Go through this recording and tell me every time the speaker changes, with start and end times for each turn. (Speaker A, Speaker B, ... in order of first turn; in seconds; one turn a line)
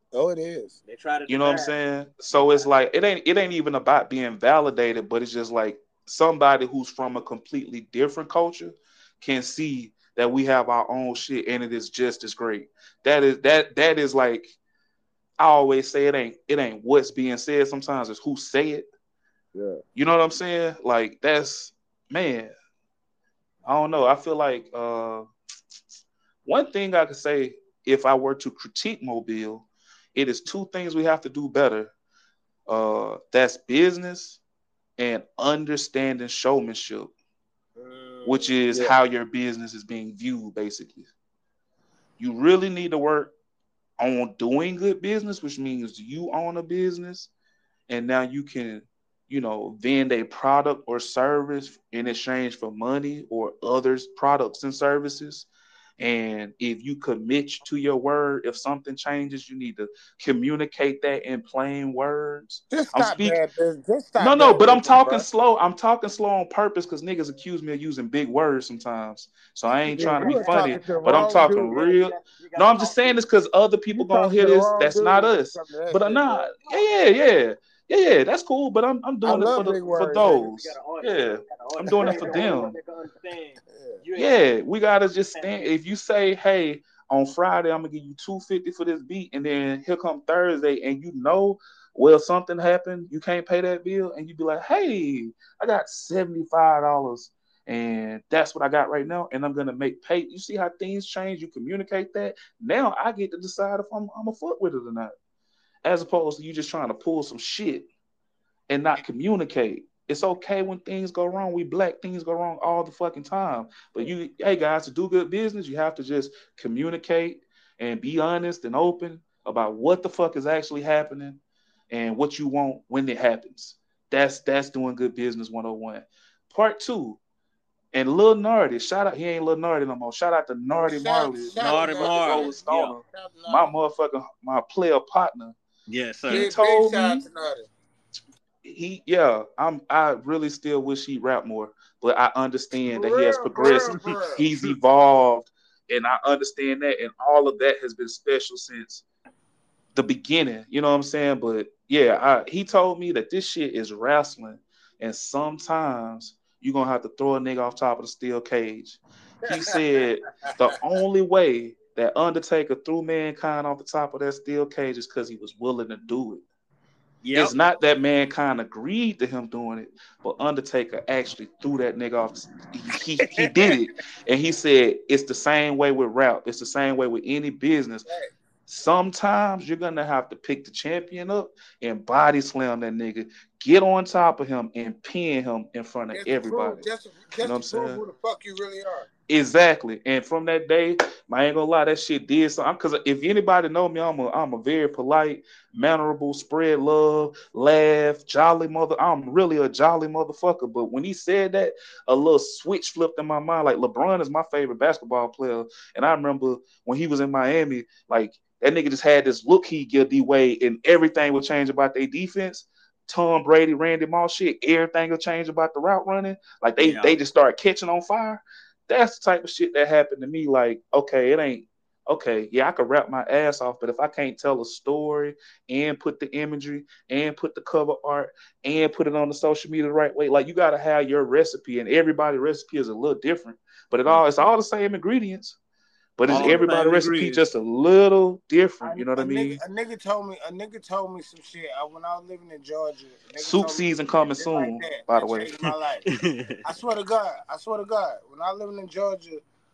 Speaker A: 0.1-0.8
Speaker B: 0.9-1.5
Speaker C: 1.3-14.6
Speaker A: 1.4-1.7
Speaker C: 15.4-18.9
Speaker C: 19.9-22.5
Speaker C: 23.6-25.3
Speaker C: 26.5-31.9
Speaker C: 32.7-34.4
Speaker C: 35.0-37.1
Speaker B: 37.8-38.6
Speaker C: 38.2-41.1
Speaker C: 42.2-43.3
Speaker C: 44.0-47.3
Speaker C: 47.9-55.5
Speaker C: 56.0-63.4
Speaker A: 62.7-65.3
Speaker C: 64.2-82.8
Speaker A: 69.9-72.2
Speaker B: 70.0-73.3
Speaker A: 73.9-76.6
Speaker A: 79.2-80.5
Speaker B: 79.4-84.4
Speaker A: 81.9-82.6
Speaker A: 83.7-84.0
Speaker C: 84.2-105.1
Speaker C: 105.8-107.9
Speaker C: 108.7-127.2
Speaker C: 127.9-135.6
Speaker A: 130.9-133.7
Speaker B: 131.5-132.9
Speaker B: 135.9-136.5
Speaker C: 136.3-137.2
Speaker A: 136.3-137.7
Speaker C: 138.6-149.0
Speaker A: 142.9-144.5
Speaker C: 149.9-166.4
Speaker A: 159.5-159.8
Speaker B: 167.2-167.6
Speaker C: 167.3-178.1
Speaker B: 173.3-173.8
Speaker A: 178.1-178.3
Speaker C: 178.7-186.8
Speaker A: 186.1-189.1
Speaker C: 187.4-188.0
Speaker C: 189.3-235.6
Speaker B: 216.8-217.2
Speaker C: 236.2-239.6
Speaker B: 236.3-237.4
Speaker A: 236.3-236.7
Speaker A: 238.8-246.1
Speaker C: 243.4-245.5
Speaker B: 246.1-246.6
Speaker A: 246.6-249.4